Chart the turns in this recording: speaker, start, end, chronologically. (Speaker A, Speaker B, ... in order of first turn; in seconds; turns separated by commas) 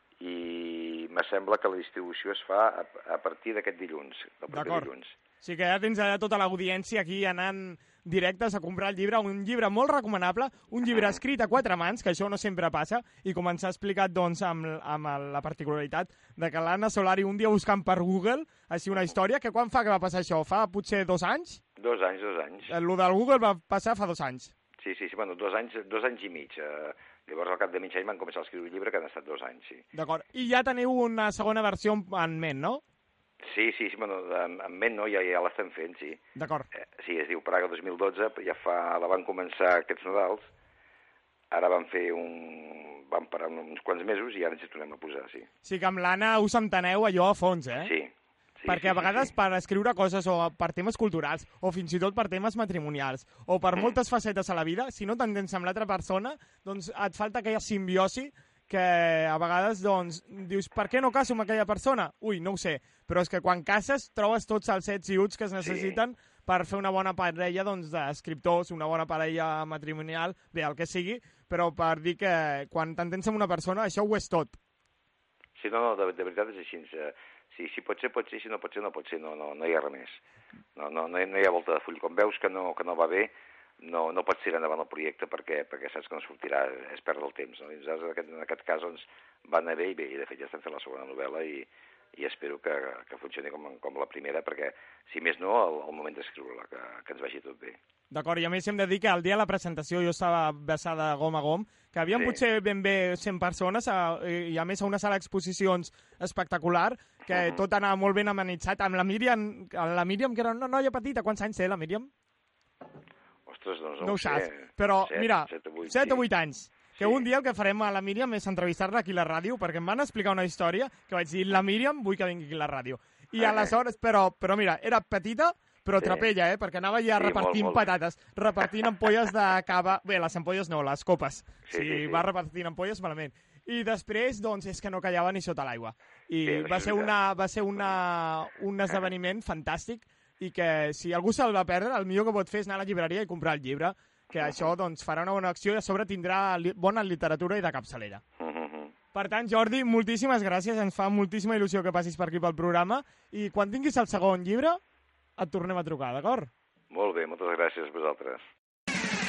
Speaker A: 0.2-5.2, Speaker B: 4.5-4.9, Speaker B: 5.4-21.6, Speaker A: 10.9-11.2, Speaker A: 21.8-22.8, Speaker B: 22.7-24.5, Speaker A: 24.8-29.9, Speaker B: 29.9-32.8, Speaker A: 33.4-36.2, Speaker B: 36.4-36.7, Speaker A: 36.8-40.5, Speaker A: 41.5-45.5, Speaker B: 45.6-47.9, Speaker A: 47.8-48.1, Speaker A: 48.6-49.3, Speaker B: 48.7-74.6, Speaker A: 65.6-66.0, Speaker A: 75.6-80.2, Speaker A: 80.8-97.8, Speaker B: 98.1-112.1, Speaker A: 102.1-102.4, Speaker A: 107.3-107.7, Speaker A: 113.5-116.3, Speaker B: 114.0-148.2, Speaker A: 116.9-117.3, Speaker A: 123.4-123.8, Speaker A: 126.0-126.3, Speaker A: 127.2-128.0, Speaker A: 131.7-132.3, Speaker A: 136.4-137.1, Speaker A: 144.4-144.7, Speaker A: 148.4-148.9, Speaker B: 149.1-154.8, Speaker B: 155.4-156.5, Speaker A: 156.9-158.4